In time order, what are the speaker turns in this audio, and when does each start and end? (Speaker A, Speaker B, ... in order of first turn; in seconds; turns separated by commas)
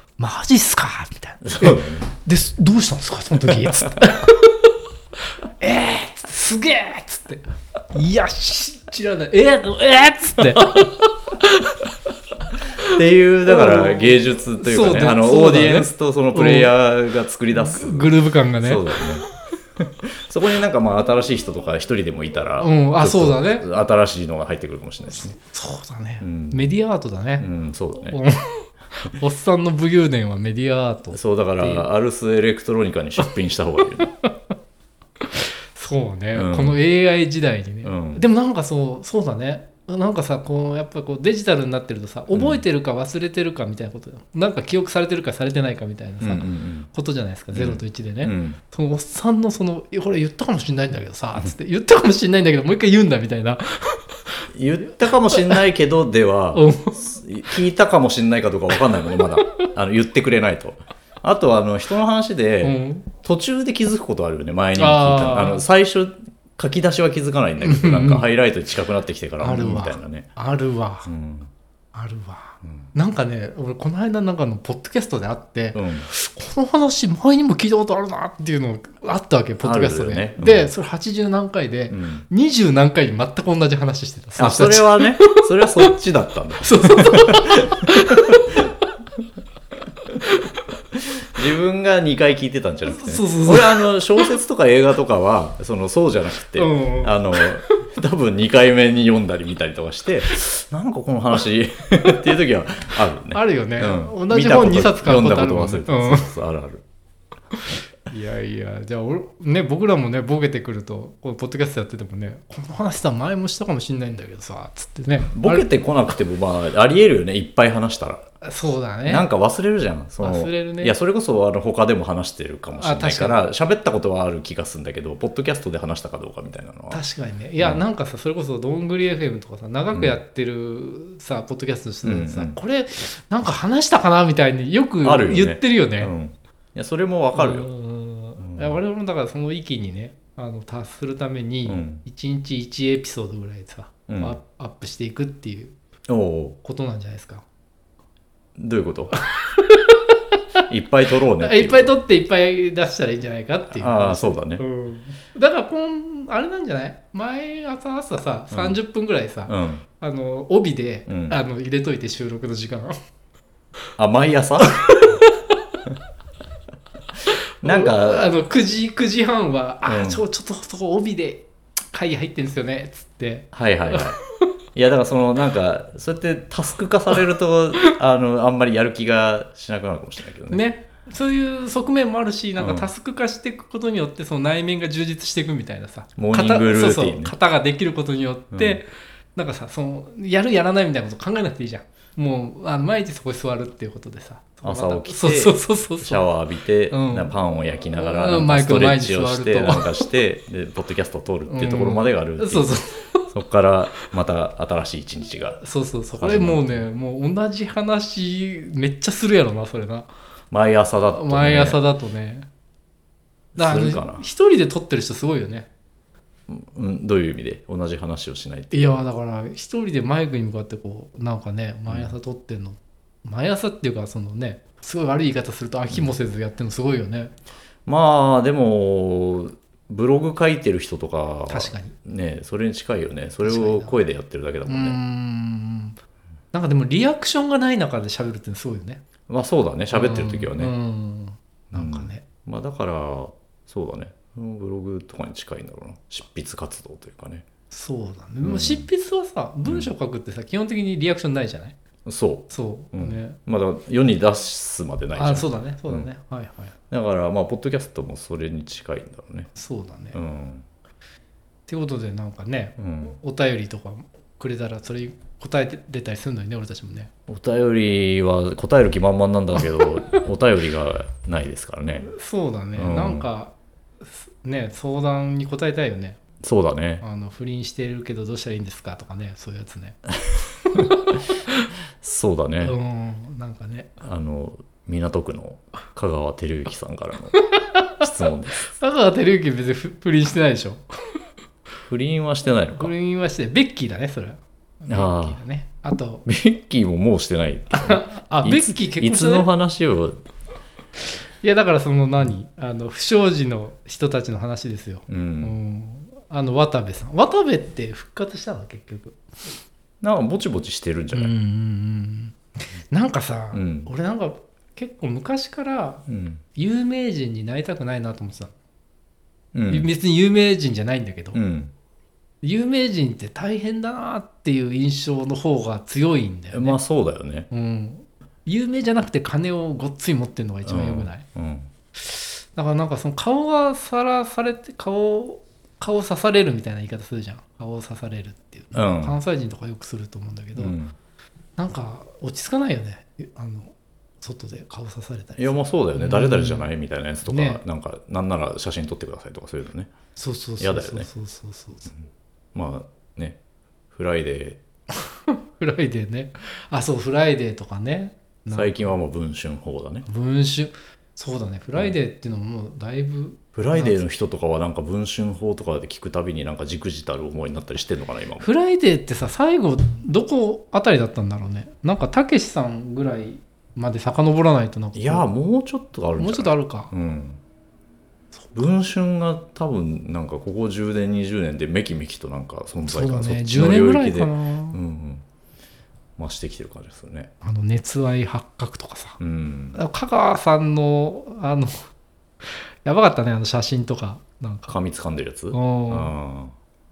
Speaker A: 0.2-4.7, Speaker B: 1.4-2.1, Speaker A: 5.6-7.4, Speaker A: 7.9-11.9, Speaker A: 12.8-16.7, Speaker B: 12.8-19.2, Speaker A: 17.5-19.0, Speaker B: 19.8-25.4, Speaker A: 22.6-23.7, Speaker A: 25.3-27.5, Speaker B: 26.2-26.7, Speaker B: 27.4-28.2, Speaker A: 28.1-31.9, Speaker B: 31.1-34.1, Speaker A: 35.2-54.4, Speaker B: 36.4-36.8, Speaker B: 37.8-38.2, Speaker B: 42.3-42.6, Speaker B: 46.2-46.9, Speaker B: 47.5-48.6, Speaker B: 54.5-70.3, Speaker A: 56.5-57.1, Speaker A: 62.6-63.1, Speaker A: 64.8-65.6, Speaker A: 67.6-68.3, Speaker A: 69.4-71.1, Speaker B: 71.1-71.5, Speaker A: 71.9-85.9, Speaker B: 72.6-72.9, Speaker B: 75.8-76.1, Speaker B: 79.6-80.7, Speaker B: 81.9-82.3, Speaker B: 84.4-88.6, Speaker A: 86.6-88.7, Speaker B: 90.9-106.8, Speaker A: 92.9-94.3, Speaker A: 96.6-97.8, Speaker A: 103.3-106.3, Speaker A: 107.5-115.7, Speaker B: 115.3-118.2, Speaker A: 118.4-119.3, Speaker B: 119.1-127.0, Speaker A: 120.2-121.0, Speaker A: 122.8-123.4, Speaker A: 126.9-136.1, Speaker B: 129.9-130.2, Speaker B: 132.0-132.6, Speaker B: 135.0-137.7, Speaker A: 137.3-145.8, Speaker B: 138.4-138.8, Speaker B: 141.7-142.0, Speaker B: 144.1-144.4, Speaker B: 146.1-146.6, Speaker A: 146.6-147.4, Speaker B: 148.6-149.1, Speaker A: 149.5-150.0, Speaker B: 150.7-151.9, Speaker A: 151.4-162.9, Speaker B: 153.7-154.6, Speaker B: 158.5-158.8, Speaker B: 159.5-159.8, Speaker B: 161.1-161.4, Speaker B: 164.0-165.1, Speaker A: 164.6-165.3, Speaker B: 167.6-168.3, Speaker A: 167.6-174.1, Speaker B: 169.9-170.2, Speaker B: 173.5-174.2, Speaker B: 174.7-180.7, Speaker A: 180.5-196.3, Speaker B: 182.6-182.9, Speaker B: 186.2-187.3, Speaker B: 188.5-188.8, Speaker B: 194.6-202.7, Speaker A: 196.9-197.3, Speaker A: 198.0-200.0, Speaker A: 201.5-203.3, Speaker B: 203.3-205.6, Speaker A: 205.6-210.1, Speaker B: 206.2-206.8, Speaker B: 210.5-211.8, Speaker A: 211.1-212.5, Speaker B: 213.6-214.2, Speaker A: 213.6-215.7, Speaker B: 216.5-219.0, Speaker A: 218.7-227.3, Speaker B: 227.9-235.0, Speaker A: 231.5-231.9, Speaker A: 233.4-234.0, Speaker A: 234.7-236.0, Speaker A: 236.5-239.0, Speaker B: 239.3-240.7, Speaker A: 239.9-242.2, Speaker B: 241.7-247.5, Speaker A: 247.7-251.8, Speaker B: 248.4-248.9, Speaker B: 252.1-256.1, Speaker A: 252.5-253.4, Speaker A: 255.2-256.8, Speaker B: 256.9-259.5, Speaker A: 259.6-260.2, Speaker B: 260.1-260.7, Speaker A: 261.7-267.1, Speaker B: 262.8-263.2, Speaker B: 267.3-272.1, Speaker A: 272.0-276.2, Speaker B: 272.8-273.3, Speaker B: 276.4-277.0, Speaker A: 277.0-280.0, Speaker A: 280.7-281.6, Speaker B: 282.0-282.8, Speaker A: 282.6-283.9, Speaker B: 284.0-287.4, Speaker A: 287.4-287.9, Speaker B: 288.0-288.7, Speaker A: 288.6-290.8, Speaker B: 291.9-292.9, Speaker A: 292.8-296.2, Speaker B: 294.9-295.4, Speaker B: 296.3-300.2, Speaker A: 297.7-299.5, Speaker A: 301.4-309.2, Speaker B: 305.1-305.6, Speaker B: 310.0-311.3, Speaker A: 311.1-312.4, Speaker A: 312.9-316.0, Speaker B: 313.5-313.9, Speaker B: 316.1-316.4, Speaker A: 316.6-318.5, Speaker B: 319.5-319.9, Speaker A: 319.7-321.4, Speaker B: 321.3-321.7, Speaker A: 322.4-326.8, Speaker B: 326.5-327.5, Speaker A: 327.5-331.2, Speaker B: 330.6-331.7, Speaker A: 332.0-340.8, Speaker B: 338.7-339.2, Speaker B: 340.6-340.9, Speaker A: 341.6-346.7, Speaker B: 345.4-349.9, Speaker A: 347.2-347.6, Speaker A: 350.2-351.9, Speaker B: 350.6-351.1, Speaker B: 352.5-353.4, Speaker B: 353.9-354.6, Speaker A: 355.3-358.9, Speaker B: 358.5-360.1, Speaker A: 360.1-364.0, Speaker B: 363.6-368.5, Speaker A: 368.4-375.3, Speaker B: 374.9-377.4, Speaker A: 376.2-376.9, Speaker B: 378.6-385.2, Speaker A: 382.9-384.8, Speaker B: 386.2-387.3, Speaker A: 387.4-389.2, Speaker B: 389.2-389.8, Speaker A: 389.7-391.9, Speaker A: 392.9-394.8, Speaker B: 394.7-396.5, Speaker A: 395.5-396.1